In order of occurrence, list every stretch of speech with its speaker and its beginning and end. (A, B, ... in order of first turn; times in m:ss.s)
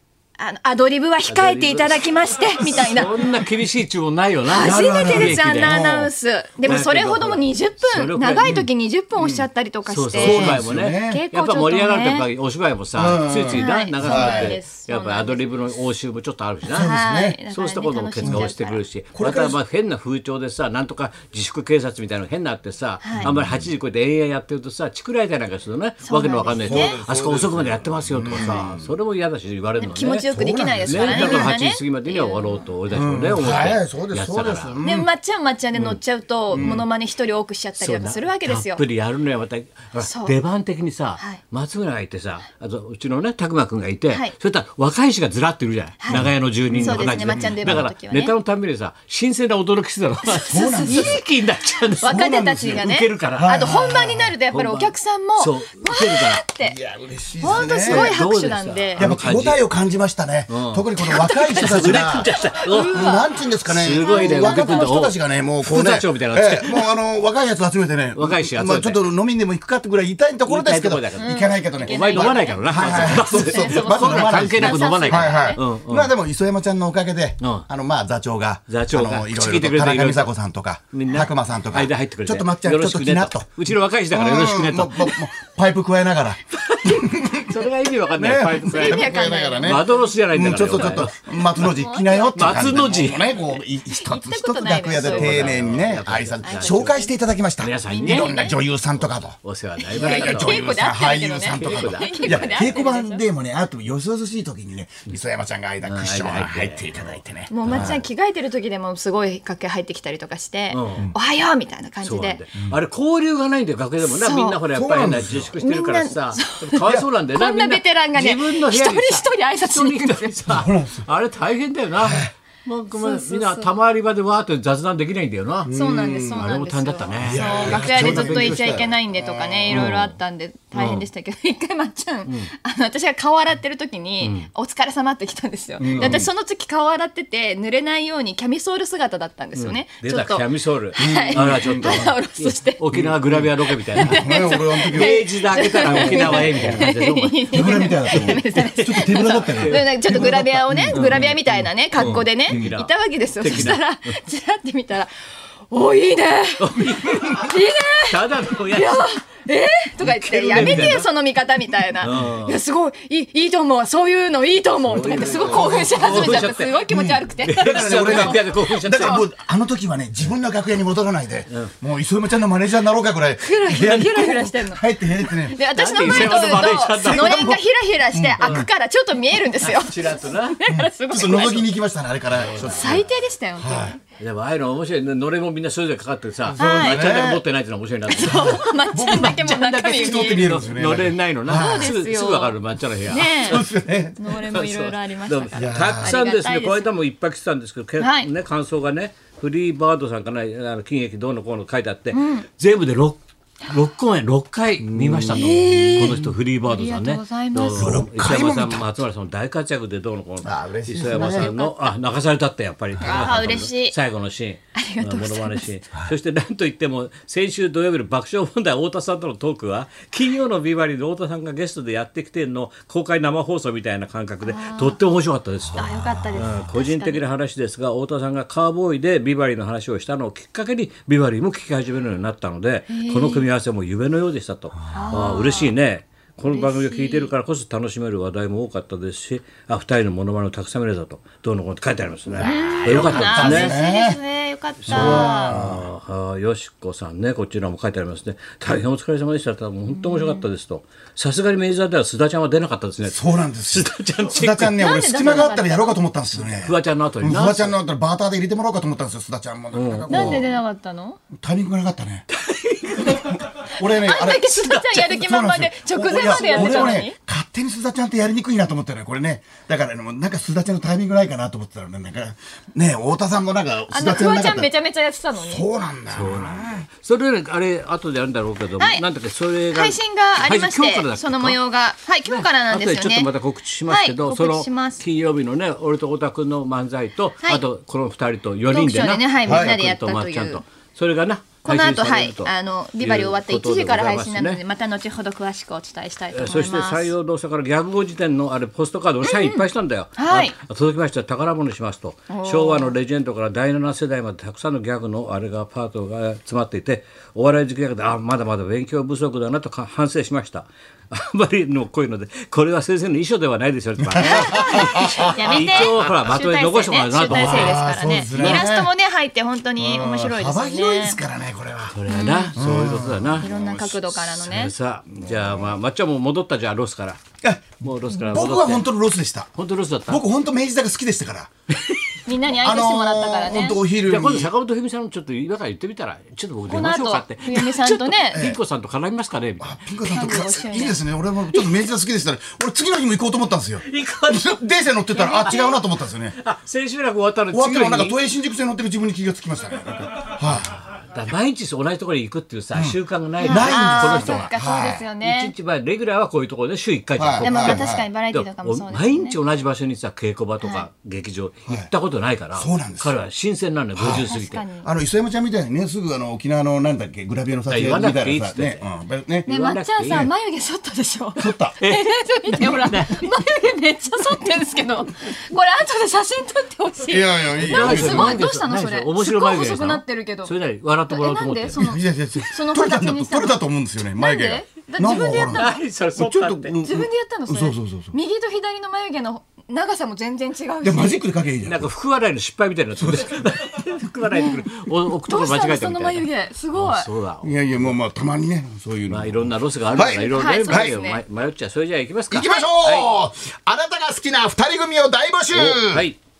0:00.4-0:03.2 A
0:01.3-0:05.8 B
0:04.4-0:12.3 A
0:04.6-0:06.1 C
0:06.6-0:08.7 B
0:09.2-0:09.4 C
0:09.8-0:16.9 B
0:10.1-0:11.2 C
0:12.9-0:14.6 C
0:13.5-0:15.5 A
0:16.7-0:17.4 C
0:16.7-0:18.8 A
0:17.5-0:30.3 B
0:18.2-0:18.5 C
0:19.1-0:19.6 C
0:23.0-0:23.3 A
0:23.1-0:23.6 C
0:26.0-0:27.0 A
0:26.6-0:28.9 C
0:28.3-0:28.7 A
0:29.8-0:32.6 A
0:30.3-0:31.6 C
0:30.8-0:34.8 B
0:32.9-0:35.1 C
0:34.8-0:38.8 A
0:36.5-0:36.8 B
0:36.5-0:36.8 C
0:37.8-0:53.6 B
0:40.0-0:40.3 A
0:44.1-0:44.3 A
0:46.1-0:47.8 C
0:46.8-0:48.3 A
0:50.2-0:51.2 A
0:50.5-0:51.2 C
0:52.0-0:56.8 A
0:52.0-0:54.3 C
0:54.5-0:56.4 B
0:56.6-0:58.2 C
0:57.4-0:59.1 A
0:57.7-0:59.6 B
0:59.0-1:02.3 C
1:00.5-1:00.9 B
1:01.0-1:03.4 A
1:01.5-1:03.0 B
1:02.9-1:23.5 C
1:03.7-1:06.8 B
1:04.0-1:04.9 A
1:08.1-1:09.0 B
1:10.4-1:16.1 B
1:11.2-1:15.6 A
1:17.4-1:17.7 B
1:18.7-1:20.3 B
1:20.9-1:25.3 B
1:24.1-1:27.6 C
1:26.6-1:31.7 B
1:28.1-1:39.4 C
1:28.6-1:37.2 A
1:32.4-1:33.4 B
1:34.9-1:37.0 B
1:37.6-1:38.4 B
1:37.8-1:38.6 A
1:39.0-1:40.7 B
1:39.8-1:43.2 A
1:39.9-1:48.0 C
1:41.5-1:42.6 B
1:45.8-1:48.0 B
1:47.5-1:52.4 A
1:50.7-1:51.1 B
1:52.0-2:05.7 B
1:54.0-1:54.6 A
1:54.7-1:55.6 C
1:55.6-2:00.4 A
2:00.5-2:01.1 C
2:02.0-2:02.3 C
2:03.0-2:03.7 A
2:05.6-2:06.4 C
2:05.7-2:22.8 A
2:06.3-2:08.9 B
2:07.2-2:09.9 C
2:09.7-2:10.1 B
2:10.8-2:11.1 B
2:14.2-2:14.5 B
2:15.8-2:16.3 C
2:15.9-2:16.2 B
2:19.6-2:24.3 B
2:21.0-2:22.1 C
2:22.9-2:26.9 C
2:23.9-2:49.2 A
2:24.9-2:31.3 B
2:27.5-2:32.7 C
2:31.9-2:33.8 B
2:36.6-2:39.1 B
2:40.0-2:41.1 B
2:40.6-2:40.9 C
2:42.0-2:42.6 B
2:44.9-2:46.9 B
2:45.2-2:57.6 C
2:47.4-2:49.3 B
2:53.4-3:01.7 A
2:55.7-2:57.6 B
2:58.1-2:58.7 C
2:58.4-2:58.6 B
2:59.6-3:00.6 B
3:00.7-3:03.0 C
3:02.3-3:03.0 B
3:02.6-3:04.0 A
3:03.6-3:04.0 C
3:04.2-3:13.6 B
3:06.5-3:07.4 C
3:06.6-3:07.2 A
3:08.1-3:10.6 A
3:08.2-3:11.9 C
3:11.5-3:13.6 A
3:13.3-3:14.2 C
3:14.2-3:16.9 A
3:14.3-4:03.8 B
3:15.6-3:16.2 C
3:18.0-3:18.3 A
3:22.1-3:22.4 A
3:24.8-3:26.3 C
3:25.3-3:28.0 A
3:27.8-3:28.9 C
3:30.4-3:31.5 C
3:31.4-3:31.7 A
3:33.0-3:33.3 C
3:33.0-3:33.9 A
3:34.8-3:35.7 A
3:44.4-3:45.0 A
3:45.8-3:47.2 A
3:52.9-3:53.4 A
3:54.9-3:55.7 A
3:56.4-3:57.3 A
4:02.4-4:05.6 A
4:02.4-4:04.2 C
4:04.9-4:14.8 B
4:04.9-4:05.9 C
4:09.9-4:10.4 A
4:13.1-4:20.5 C
4:14.8-4:16.0 A
4:16.3-4:17.8 B
4:19.7-4:20.4 B
4:20.1-4:21.2 A
4:21.4-4:22.2 C
4:22.3-4:23.4 B
4:23.1-4:34.7 C
4:23.9-4:27.2 A
4:26.1-4:27.0 B
4:33.9-4:35.6 A
4:35.3-4:36.8 C
4:36.1-4:41.6 B
4:38.8-4:39.0 A
4:39.7-4:43.3 A
4:42.2-4:54.6 B
4:43.9-4:45.0 A
4:48.6-4:50.6 A
4:49.4-4:49.8 C
4:51.6-4:57.1 A
4:56.3-5:18.7 B
4:59.2-4:59.6 A
5:00.2-5:00.6 A
5:02.3-5:02.9 A
5:14.1-5:16.2 C
5:14.2-5:21.2 A
5:17.2-5:18.9 C
5:19.8-5:22.0 C
5:21.9-5:23.5 B
5:22.1-5:22.6 A
5:22.5-5:24.3 C
5:23.4-5:24.7 A
5:24.3-5:27.2 B
5:25.1-5:25.7 C
5:27.4-5:29.5 C
5:27.8-5:28.9 B
5:29.6-5:30.2 B
5:30.1-5:31.5 C
5:32.2-5:33.8 A
5:32.6-5:34.5 C
5:34.0-5:39.7 B
5:36.7-5:38.5 A
5:38.3-5:38.6 C
5:39.6-5:46.4 C
5:40.1-5:41.0 A
5:43.8-5:45.8 B
5:45.2-5:45.8 A
5:46.3-5:48.2 B
5:47.5-5:50.7 C
5:51.1-5:54.5 B
5:52.7-5:55.1 C
5:53.4-5:55.5 A
5:55.2-6:04.6 B
5:57.2-5:58.1 C
5:57.4-5:59.4 A
6:00.6-6:00.9 A
6:02.6-6:03.2 C
6:04.0-6:09.5 C
6:04.2-6:04.9 A
6:07.7-6:08.8 B
6:09.5-6:10.3 B
6:09.5-6:20.5 A
6:11.4-6:11.8 C
6:11.8-6:13.3 B
6:17.1-6:18.4 C
6:17.6-6:21.8 B
6:21.1-6:23.6 A
6:21.8-6:28.1 C
6:24.2-6:25.8 A
6:25.5-6:26.8 B
6:26.8-6:31.2 A
6:30.8-6:31.9 C
6:31.6-6:38.0 B
6:33.0-6:33.5 C
6:34.3-6:37.1 A
6:37.4-6:41.0 C
6:39.1-6:43.1 B
6:40.3-6:41.2 A
6:42.3-6:46.1 C
6:42.4-6:42.7 A
6:45.5-6:46.2 B